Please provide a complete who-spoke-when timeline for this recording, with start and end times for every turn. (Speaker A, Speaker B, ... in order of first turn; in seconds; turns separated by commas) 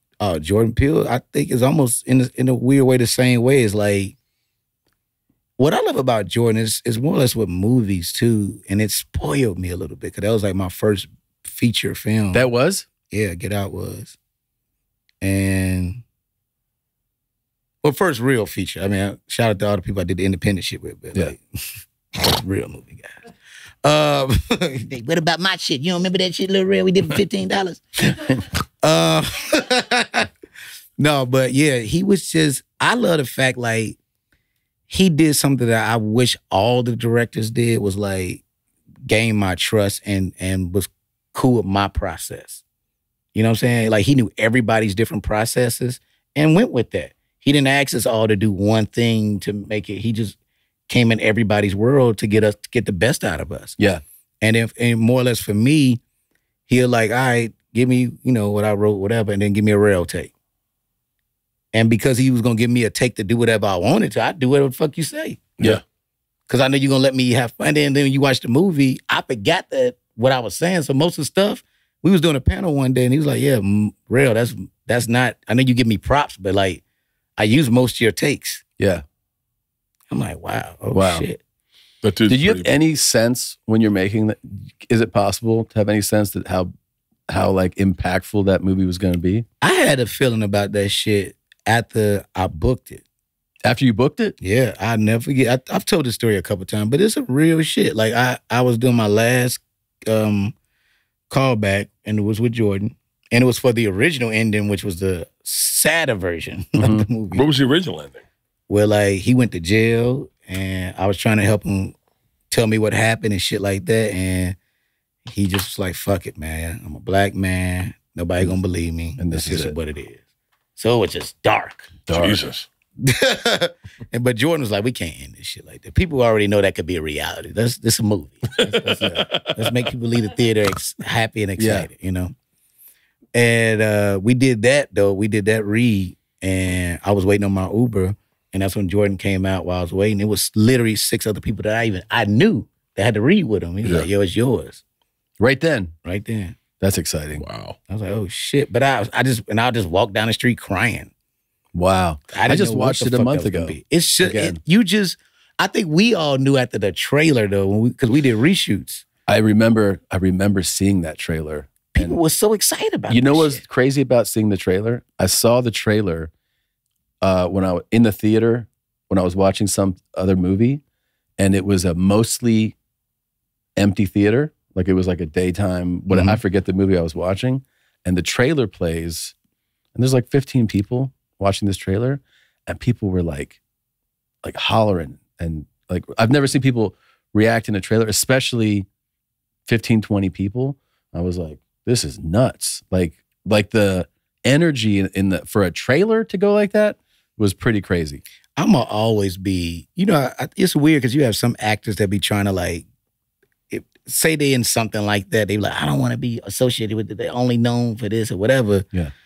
Speaker A: 0.2-4.2, Speaker A: 5.6-12.5, Speaker B: 12.3-12.9, Speaker A: 13.1-14.2, Speaker A: 15.2-16.0, Speaker A: 17.8-23.1, Speaker A: 23.8-30.3, Speaker A: 31.0-34.0, Speaker A: 34.9-38.4, Speaker A: 39.1-42.6, Speaker A: 43.3-50.4, Speaker A: 50.9-53.8, Speaker A: 54.4-56.0, Speaker A: 56.7-60.3, Speaker A: 61.7-65.6, Speaker A: 66.5-76.8, Speaker A: 77.4-78.6, Speaker A: 80.1-81.4, Speaker B: 80.9-81.2, Speaker C: 82.0-82.7, Speaker B: 82.3-86.7, Speaker B: 87.3-89.5, Speaker A: 89.6-93.0, Speaker B: 93.6-94.3, Speaker A: 94.4-100.5, Speaker A: 101.3-107.5, Speaker B: 106.8-107.1, Speaker C: 107.3-108.3, Speaker A: 108.7-112.0, Speaker A: 112.5-114.6, Speaker A: 115.3-120.2, Speaker B: 119.2-119.7, Speaker A: 120.8-122.1, Speaker B: 122.1-122.4, Speaker C: 122.1-122.7, Speaker A: 123.0-132.3, Speaker C: 128.6-129.7, Speaker B: 131.6-131.9, Speaker A: 133.3-144.8, Speaker B: 145.4-145.9, Speaker A: 146.1-146.6, Speaker B: 146.8-147.4, Speaker C: 147.4-147.8, Speaker A: 147.9-151.1, Speaker B: 151.7-154.6, Speaker A: 152.3-159.1, Speaker B: 159.3-162.2, Speaker A: 161.9-163.6, Speaker B: 163.1-166.3, Speaker B: 167.2-170.8, Speaker B: 171.4-172.8, Speaker B: 173.8-179.3, Speaker A: 176.1-176.4, Speaker B: 179.9-183.6, Speaker B: 184.4-188.9, Speaker B: 189.7-198.2, Speaker A: 198.6-202.9, Speaker A: 203.7-208.9